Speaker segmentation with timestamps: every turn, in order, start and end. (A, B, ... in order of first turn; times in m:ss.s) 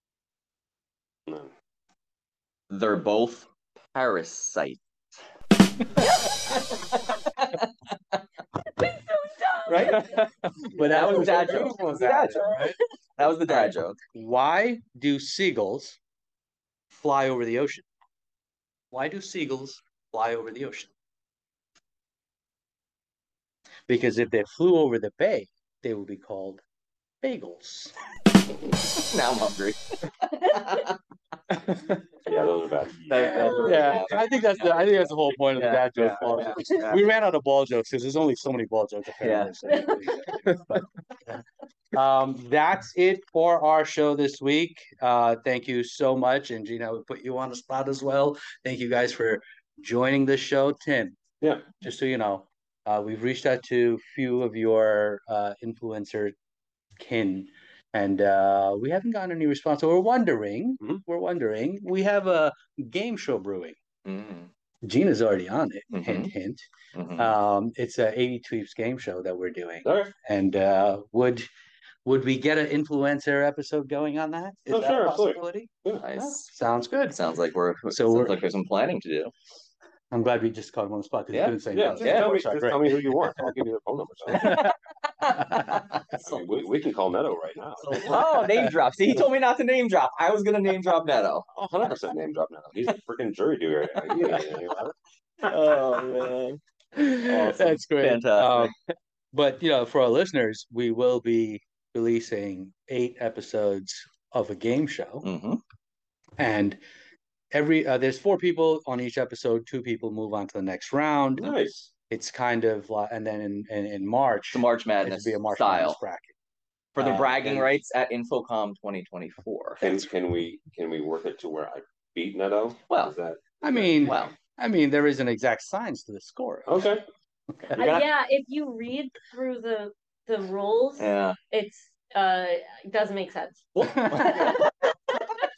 0:02.7-0:04.8 A
0:06.0-0:08.2 A
0:06.1-0:06.7 B
0:08.8-0:10.3 B
0:09.7-0:10.1 A
0:10.7-0:12.8 C
0:10.8-0:12.6 A
0:11.5-0:12.8 B
0:13.2-0:14.0 A
0:13.5-0:16.0 C
0:16.9-0:17.9 C
0:18.9-0:20.9 C
0:23.9-0:26.6 C
0:27.2-0:27.9 C
0:28.7-0:30.9 A
0:31.5-0:32.0 C
0:32.2-0:33.9 D
0:33.1-0:37.0 A
0:33.3-0:33.7 B
0:33.6-0:41.4 C
0:36.0-0:36.5 D
0:39.2-0:39.9 A
0:41.9-0:51.2 C
0:51.4-0:51.7 D
0:51.8-0:56.3 C
0:57.0-1:03.8 C
1:04.0-1:04.5 A
1:04.8-1:11.5 C
1:05.9-1:06.3 A
1:06.9-1:07.4 A
1:09.8-1:10.1 D
1:12.0-1:17.2 C
1:14.7-1:16.1 D
1:16.0-1:16.5 A
1:17.1-1:19.3 A
1:17.9-1:18.4 C
1:20.1-1:23.0 C
1:21.3-1:22.4 A
1:21.7-1:24.7 D
1:24.3-1:24.7 C
1:24.4-1:26.7 A
1:26.2-1:28.4 D
1:27.8-1:31.5 A
1:31.5-1:35.6 D
1:34.1-1:34.4 A
1:35.4-1:36.6 A
1:37.0-1:38.7 C
1:37.1-1:38.7 A
1:39.3-1:45.3 C
1:45.2-1:45.6 A
1:46.4-1:46.8 C
1:47.5-1:51.5 C
1:51.4-1:51.9 D
1:52.1-1:56.3 C
1:54.5-1:56.0 A
1:57.0-1:59.9 A
1:57.0-1:57.7 C
1:59.8-2:04.1 D
2:03.6-2:06.7 C
2:04.1-2:04.3 A
2:06.7-2:07.0 D
2:07.7-2:08.1 A
2:07.8-2:14.7 B
2:11.0-2:11.4 A
2:13.8-2:14.6 C
2:13.8-2:14.7 A